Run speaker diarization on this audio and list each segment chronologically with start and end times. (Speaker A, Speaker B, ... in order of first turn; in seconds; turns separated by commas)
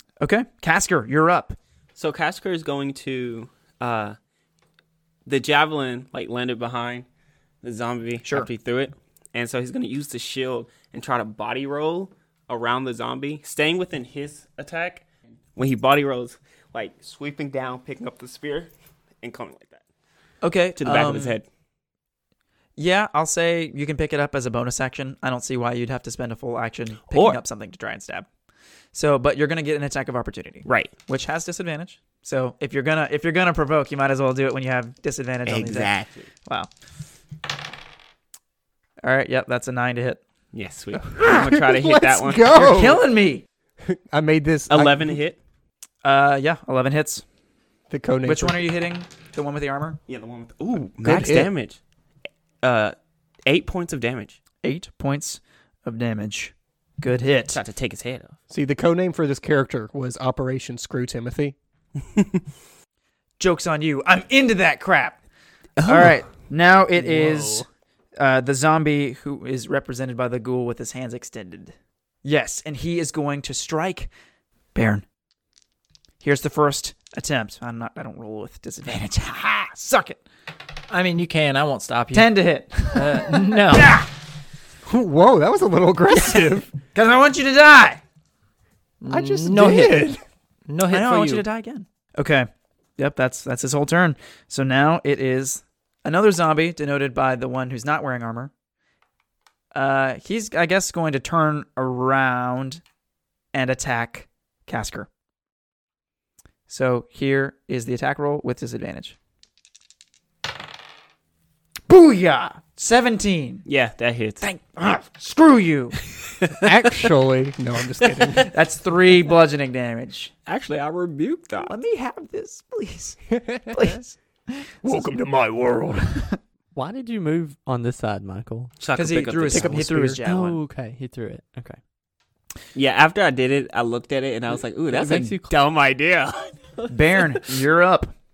Speaker A: 0.2-1.6, Speaker B: 1.9-4.2, Speaker B: 5.2-7.0, Speaker B: 7.6-18.7, Speaker B: 19.2-19.8, Speaker A: 20.4-21.4, Speaker B: 20.8-21.4, Speaker A: 22.8-28.3, Speaker B: 27.1-27.4, Speaker A: 28.9-35.9, Speaker B: 30.6-30.9, Speaker B: 35.5-36.3, Speaker A: 39.0-40.2, Speaker B: 40.5-42.5, Speaker C: 41.0-43.0, Speaker A: 42.5-43.4, Speaker C: 43.8-45.2, Speaker B: 44.7-45.4, Speaker A: 46.0-47.2, Speaker C: 47.9-48.7, Speaker A: 48.2-50.0, Speaker B: 50.1-51.8, Speaker C: 51.0-51.5, Speaker B: 52.6-52.9, Speaker B: 53.5-54.4, Speaker A: 54.6-57.6, Speaker B: 57.5-58.4, Speaker C: 58.5-61.5, Speaker A: 63.4-65.2, Speaker B: 65.8-66.2, Speaker A: 65.8-67.7, Speaker A: 68.2-74.1, Speaker A: 74.7-75.0, Speaker A: 76.2-80.2, Speaker D: 80.9-84.0, Speaker A: 82.1-84.1, Speaker C: 84.8-86.7, Speaker A: 86.9-88.0, Speaker D: 89.0-90.1, Speaker C: 89.1-90.2, Speaker D: 90.7-91.4, Speaker A: 90.9-98.5, Speaker A: 99.7-102.8, Speaker A: 103.5-105.1, Speaker A: 106.7-109.2, Speaker A: 111.9-113.7, Speaker B: 113.7-114.4, Speaker A: 114.4-116.0, Speaker C: 116.5-118.5, Speaker A: 118.4-120.3, Speaker B: 120.5-121.7, Speaker A: 121.7-125.1, Speaker C: 123.3-124.0, Speaker C: 124.8-126.3, Speaker E: 126.7-128.8, Speaker B: 128.8-129.8, Speaker A: 128.9-130.6, Speaker C: 129.5-130.2, Speaker E: 130.2-131.8, Speaker B: 132.7-136.5, Speaker E: 134.9-135.5, Speaker A: 135.0-135.3, Speaker A: 136.9-138.1